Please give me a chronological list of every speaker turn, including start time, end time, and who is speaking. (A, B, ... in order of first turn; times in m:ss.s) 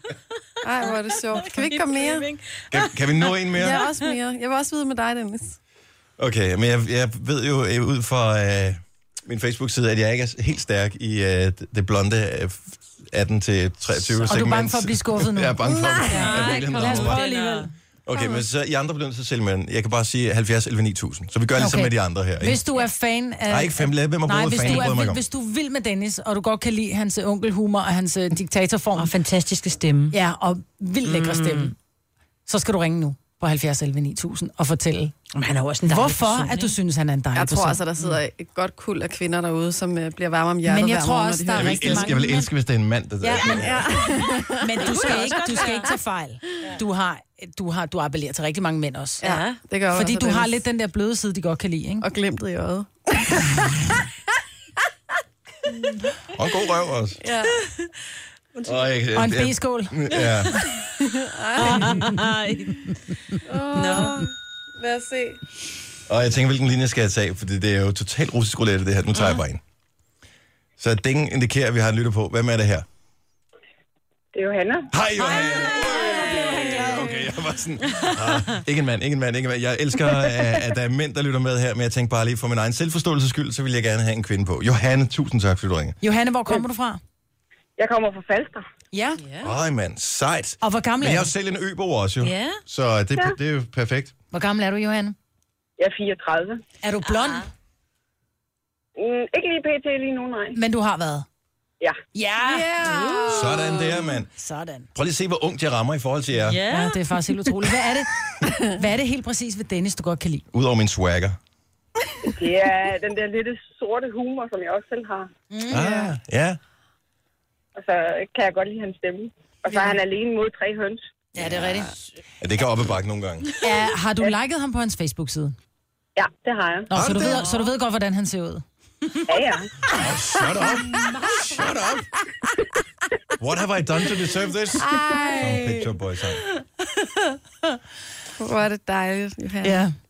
0:00.6-0:02.3 A
0:00.8-0:03.4 B
0:02.7-0:03.8 C
0:03.5-0:05.6 A
0:06.2-0:17.2 C
0:14.3-0:17.7 D
0:15.7-0:16.0 A
0:16.1-0:17.7 B
0:18.1-0:22.6 C
0:18.1-0:18.4 A
0:21.6-0:29.1 D
0:23.5-0:25.2 C
0:29.0-0:30.2 B
0:30.1-0:31.7 D
0:31.0-0:31.7 B
0:32.5-0:35.2 D
0:35.4-0:36.8 B
0:35.9-0:37.8 D
0:37.4-0:42.1 A
0:40.7-0:42.5 D
0:41.6-0:43.9 C
0:43.2-0:49.3 D
0:43.6-0:45.6 A
0:44.8-0:45.9 B
0:49.2-0:49.6 B
0:49.2-0:50.6 A
0:49.9-0:52.1 D
0:52.0-0:54.0 A
0:55.7-0:56.1 A
0:56.3-0:57.2 C
0:57.2-0:57.7 A
0:58.6-1:00.6 C
0:59.2-1:00.0 D
1:01.0-1:02.1 A
1:01.6-1:02.8 B
1:03.4-1:05.4 A
1:03.7-1:04.2 B
1:06.1-1:09.6 C
1:10.8-1:12.9 C
1:14.3-1:14.9 E
1:14.9-1:26.0 C
1:15.2-1:17.1 B
1:15.2-1:17.2 D
1:17.9-1:18.2 B
1:26.0-1:27.0 D
1:27.8-1:28.7 E
1:28.9-1:29.2 D
1:29.2-1:29.5 B
1:29.4-1:34.1 C
1:30.6-1:31.3 D
1:32.2-1:32.6 B
1:34.3-1:35.2 D
1:35.8-1:36.6 E
1:36.8-1:37.5 D
1:37.1-1:37.4 B
1:39.0-1:40.6 E
1:40.6-1:41.3 D
1:42.2-1:43.6 B
1:42.2-1:43.1 D
1:42.4-1:44.0 A
1:43.3-1:44.3 C
1:44.3-1:44.9 D
1:45.0-1:46.6 C
1:46.4-1:47.1 B
1:46.7-1:50.5 D
1:50.5-1:51.4 C
1:52.2-1:55.3 E
1:55.5-1:56.1 D
1:55.7-1:56.6 C
1:57.8-2:01.0 E
1:59.7-2:00.0 A
2:01.4-2:01.9 D
2:02.4-2:03.5 C
2:03.6-2:05.6 D
2:06.2-2:06.9 E
2:06.9-2:08.6 D
2:06.9-2:07.5 C
2:09.3-2:09.7 E
2:09.9-2:12.1 C
2:13.4-2:16.4 C
2:14.8-2:15.9 A
2:18.4-2:19.8 A
2:19.6-2:19.9 D